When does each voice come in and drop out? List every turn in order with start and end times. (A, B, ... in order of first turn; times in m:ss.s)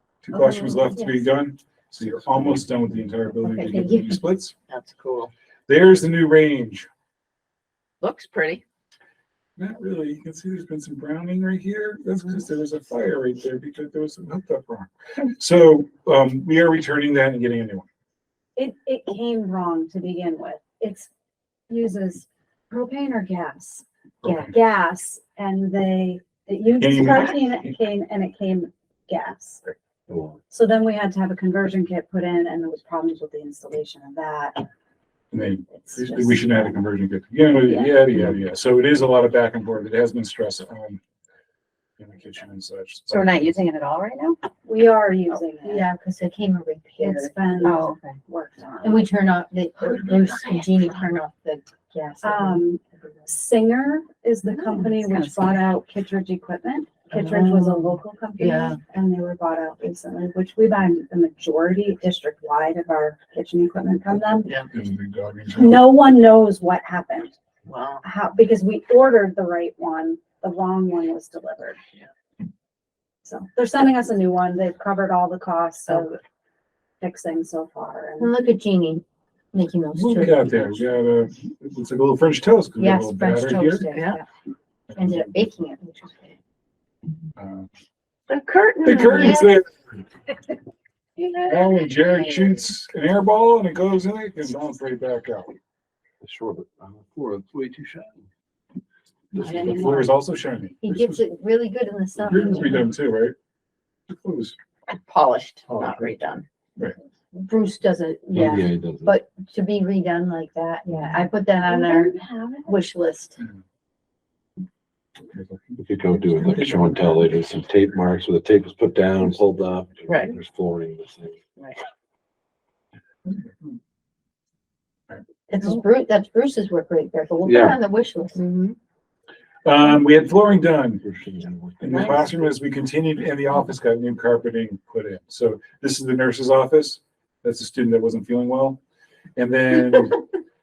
0:00.2-0:04.5 A
0:00.5-0:01.2 B
0:03.4-0:04.2 B
0:04.7-0:05.3 C
0:05.7-0:06.9 A
0:08.0-0:08.6 C
0:09.6-0:17.9 A
0:18.6-0:21.1 D
0:21.7-0:29.7 D
0:24.2-0:24.6 A
0:26.7-0:27.5 A
0:30.1-0:30.4 E
0:30.5-0:34.6 D
0:35.3-0:41.0 A
0:35.7-0:36.8 D
0:42.0-0:43.6 A
0:43.1-0:44.4 B
0:44.6-0:45.9 D
0:45.6-0:48.1 B
0:47.0-0:49.1 D
0:48.8-0:52.7 B
0:52.2-1:04.5 D
0:54.7-0:55.3 B
0:57.4-0:57.8 B
1:04.7-1:06.0 A
1:05.5-1:07.3 D
1:07.7-1:08.0 C
1:08.0-1:11.8 D
1:13.2-1:16.2 D
1:17.0-1:18.3 D
1:18.2-1:20.9 B
1:19.9-1:23.9 A
1:22.8-1:24.2 B
1:23.9-1:24.2 C
1:24.9-1:25.4 A
1:24.9-1:26.4 B
1:27.4-1:27.7 A
1:28.3-1:29.5 B
1:28.3-1:29.4 C
1:28.8-1:30.0 A
1:31.2-1:32.6 C
1:31.5-1:35.6 A
1:36.2-1:38.3 E
1:39.3-1:40.0 E
1:39.4-1:41.2 A
1:39.4-1:40.0 C
1:40.8-1:43.0 B
1:42.2-1:43.3 A
1:44.1-1:44.6 A
1:44.9-1:46.4 C
1:45.7-1:46.1 E
1:47.3-1:53.4 B
1:48.3-1:49.2 E
1:51.6-1:52.6 C
1:55.3-1:57.3 A
1:55.8-2:01.4 E
2:00.1-2:00.4 C
2:01.6-2:01.8 C
2:05.5-2:08.5 B
2:07.4-2:07.8 E
2:08.4-2:08.8 C
2:09.6-2:11.0 A
2:11.0-2:12.2 E
2:11.8-2:18.8 A
2:19.4-2:20.2 A